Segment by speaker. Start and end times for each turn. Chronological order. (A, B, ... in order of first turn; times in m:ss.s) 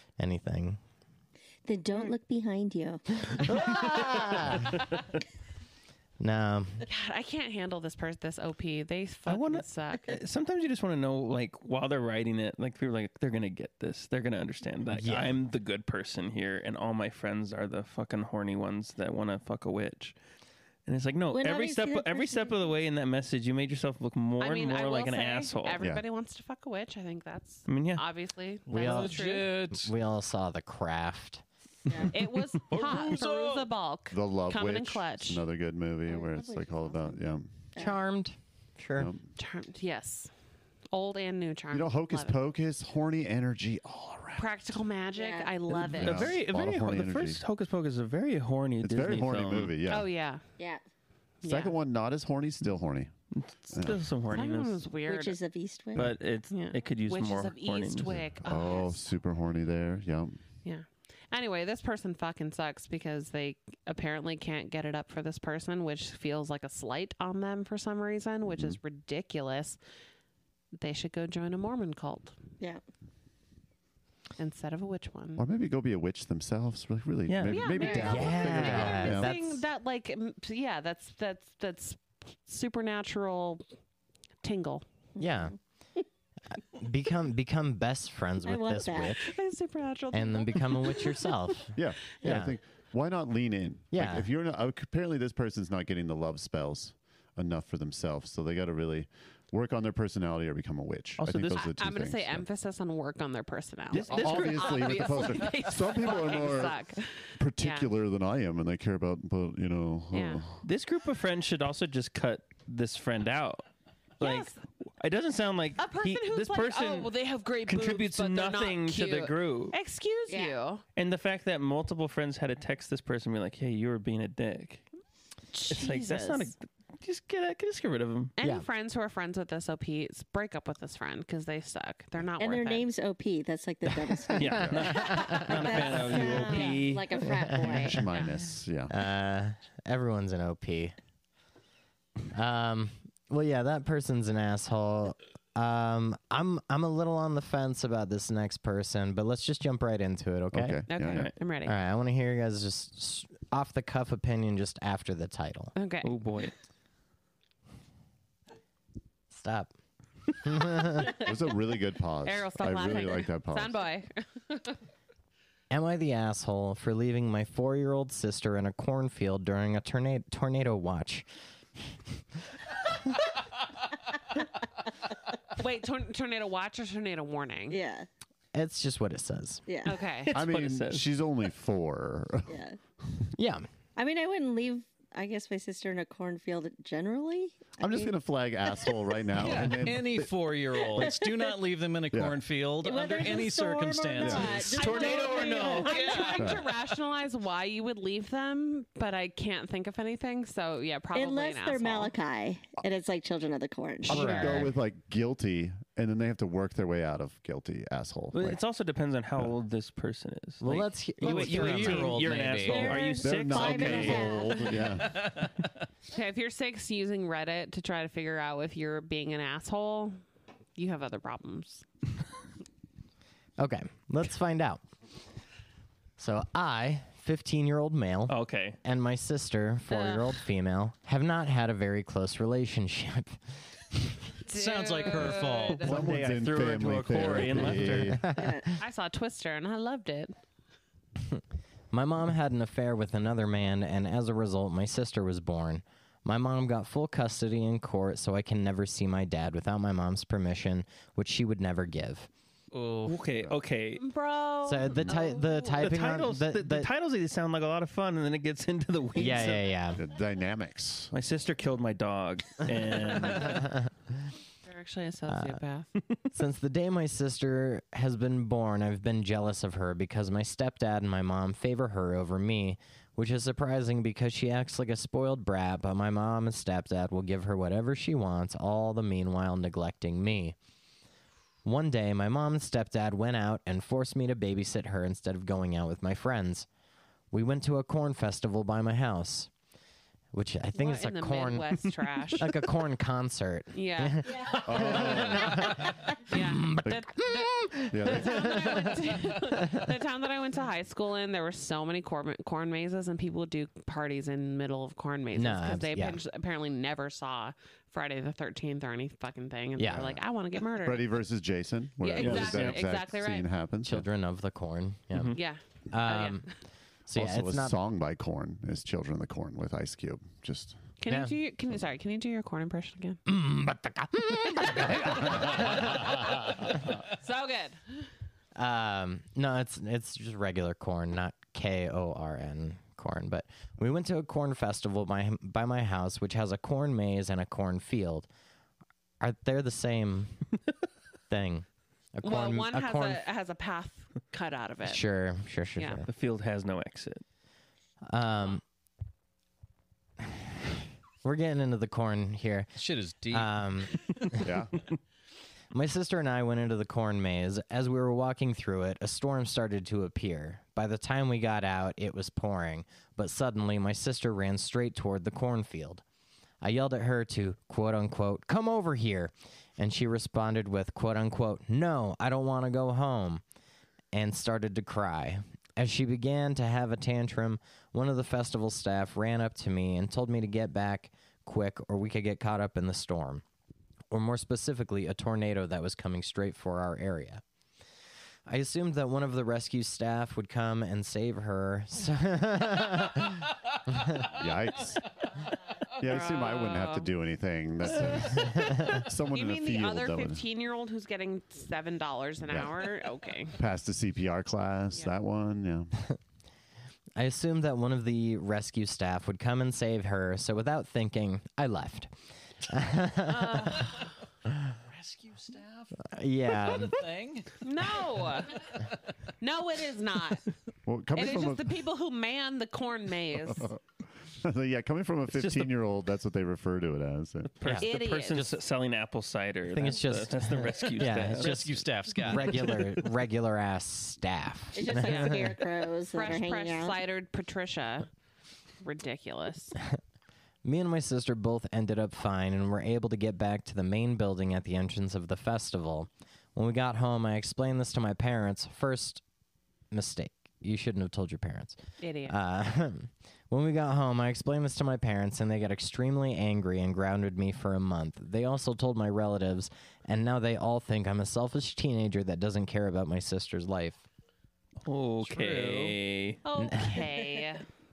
0:00.2-0:00.8 A
0:01.6-0:03.0 B
0:03.3-0:04.8 A
0:06.2-0:06.8 A
0:06.8-0:10.2 C
0:09.3-0:20.2 D
0:14.9-0:15.4 A
0:20.8-0:25.8 D
0:21.3-0:22.7 B
0:24.4-0:29.5 C
0:25.8-0:26.0 E
0:27.7-0:28.0 D
0:28.7-0:29.9 F
0:28.7-0:31.4 A
0:31.9-0:32.1 B
0:31.9-0:33.2 D
0:32.1-0:35.4 C
0:32.7-0:33.6 F
0:34.1-0:37.6 E
0:36.1-0:36.7 B
0:37.8-0:39.1 A
0:39.0-0:39.3 E
0:39.4-0:40.3 C
0:40.9-0:42.4 C
0:41.7-0:44.5 E
0:44.4-0:46.3 C
0:45.1-0:45.6 B
0:45.7-0:49.7 D
0:45.9-0:47.4 E
0:48.8-0:50.1 E
0:49.8-0:50.4 C
0:50.6-0:50.8 B
0:51.4-0:51.7 C
0:51.4-0:53.1 E
0:53.3-0:54.8 D
0:53.7-0:54.1 E
0:54.3-0:55.4 C
0:55.0-0:56.2 B
0:55.9-0:58.2 D
0:56.5-0:59.1 C
0:58.1-1:00.4 E
1:00.6-1:09.8 C
1:08.5-1:08.8 E
1:10.7-1:12.4 C
1:14.4-1:15.4 C
1:15.4-1:19.4 E
1:17.3-1:17.8 D
1:17.4-1:23.6 C
1:17.9-1:19.6 A
1:24.4-1:24.8 C
1:25.2-1:25.6 A
1:25.2-1:25.5 B
1:26.5-1:29.3 A
1:28.4-1:29.2 B
1:29.2-1:31.3 C
1:30.1-1:32.6 A
1:31.7-1:42.4 E
1:33.9-1:34.3 A
1:41.2-1:41.7 D
1:41.8-1:47.9 C
1:43.9-1:44.7 D
1:44.0-1:46.8 E
1:47.4-1:50.6 E
1:50.1-1:50.4 C
1:50.6-1:53.6 D
1:54.2-1:57.1 D
1:54.2-1:54.6 C
1:55.8-2:00.8 C
1:57.6-1:59.7 D
2:00.3-2:00.6 B
2:01.0-2:04.9 D
2:05.5-2:06.5 C
2:05.7-2:08.3 D
2:08.4-2:12.8 C
2:12.4-2:18.0 B
2:14.3-2:17.2 D
2:14.4-2:15.5 A
2:14.5-2:15.1 E
2:15.2-2:15.6 C
2:16.4-2:16.9 C
2:17.3-2:18.0 A
2:17.6-2:18.9 E
2:18.9-2:20.9 A
2:22.3-2:30.8 A
2:30.5-2:31.3 E
2:30.9-2:31.7 C
2:31.1-2:31.3 D
2:31.6-2:35.7 A
2:35.8-2:36.1 C
2:36.0-2:36.5 D
2:39.3-2:39.7 A
2:40.4-2:41.3 A
2:41.0-2:43.8 E
2:42.2-2:44.8 C
2:45.7-2:51.3 A
2:55.5-2:57.8 C
2:57.7-2:58.1 B
2:58.5-2:59.6 A
2:59.7-3:00.0 B
2:59.8-3:00.4 C
3:00.2-3:01.1 D
3:00.3-3:02.6 E
3:02.5-3:02.8 B
3:03.4-3:03.7 A
3:04.0-3:08.1 B
3:07.8-3:10.3 E
3:09.3-3:16.7 F
3:11.0-3:11.5 B
3:12.1-3:12.4 E
3:12.8-3:16.4 B
3:14.2-3:14.5 E
3:14.7-3:22.1 C
3:21.1-3:24.7 B
3:24.1-3:28.6 E
3:24.1-3:24.7 A
3:28.3-3:34.4 D
3:30.6-3:32.5 A
3:31.2-3:33.0 F
3:32.6-3:34.9 B
3:33.2-3:35.3 E
3:35.1-3:35.7 F
3:36.1-3:40.2 C
3:40.8-3:41.8 C
3:43.6-3:44.8 A
3:46.2-3:54.1 A
3:48.3-3:48.8 D
3:49.9-3:50.4 C
3:54.4-3:55.9 C
3:54.5-3:56.1 F
3:55.7-3:58.2 D
3:55.8-3:58.4 E
3:58.2-3:58.5 A
3:58.3-3:58.8 B
3:58.8-4:00.3 C
4:01.3-4:12.3 A
4:12.7-4:13.2 F
4:13.0-4:14.0 D
4:14.0-4:15.8 C
4:14.6-4:16.9 A
4:15.8-4:19.7 D
4:19.2-4:20.0 A
4:19.9-4:21.1 E
4:21.1-4:23.7 D
4:23.4-4:23.9 A
4:24.6-4:25.9 C
4:25.3-4:25.6 A
4:26.3-4:40.6 A
4:41.6-4:46.7 A
4:47.3-4:49.5 A
4:50.3-4:59.9 A
4:50.7-4:52.5 C
4:53.7-5:11.1 C
4:54.6-4:55.9 E
4:57.9-4:58.9 E
5:05.3-5:06.2 A
5:09.8-5:10.2 A
5:10.7-5:14.0 E
5:12.0-5:13.5 C
5:12.2-5:12.8 D
5:13.8-5:15.4 A
5:15.1-5:15.4 D
5:15.3-5:16.5 C
5:15.9-5:16.5 A
5:17.1-5:17.8 A
5:17.1-5:20.9 E
5:21.0-5:23.2 C
5:21.1-5:21.3 A
5:23.3-5:26.6 A
5:24.9-5:28.1 C
5:28.6-5:38.3 A
5:39.2-5:40.4 A
5:41.3-5:43.2 A
5:42.2-5:45.0 C
5:44.8-5:46.1 A
5:45.8-5:46.0 C
5:46.1-5:47.2 D
5:48.0-5:48.6 A
5:50.2-5:52.7 A
5:52.8-5:53.6 F
5:53.3-5:54.5 A
5:54.4-5:54.8 E
5:55.7-6:06.0 A
6:06.6-6:13.4 A
6:14.1-6:23.4 A
6:24.1-6:27.4 A
6:28.5-6:34.3 A
6:34.2-6:35.2 E
6:36.0-6:40.4 E
6:36.0-6:37.1 C
6:38.3-6:39.0 A
6:39.3-6:43.6 C
6:42.4-6:42.9 E
6:43.5-6:46.0 E
6:47.2-6:53.9 A
6:53.2-6:54.0 C
6:54.5-6:54.7 A
6:54.8-6:58.0 F
6:56.0-6:57.0 A
6:57.6-6:58.7 C
6:59.4-7:00.4 C
7:00.8-7:01.7 E
7:01.1-7:03.7 C
7:03.7-7:07.5 E
7:05.3-7:05.7 D
7:07.5-7:11.6 D
7:07.6-7:08.6 A
7:07.7-7:08.4 C
7:09.7-7:15.5 A
7:11.3-7:12.9 F
7:14.7-7:17.0 B
7:14.9-7:15.4 C
7:16.1-7:18.1 C
7:18.8-7:19.8 C
7:20.6-7:29.2 A
7:29.9-7:44.0 A
7:32.0-7:32.4 C
7:44.8-7:46.4 D
7:45.2-7:46.0 F
7:46.4-7:47.6 C
7:46.6-7:47.1 A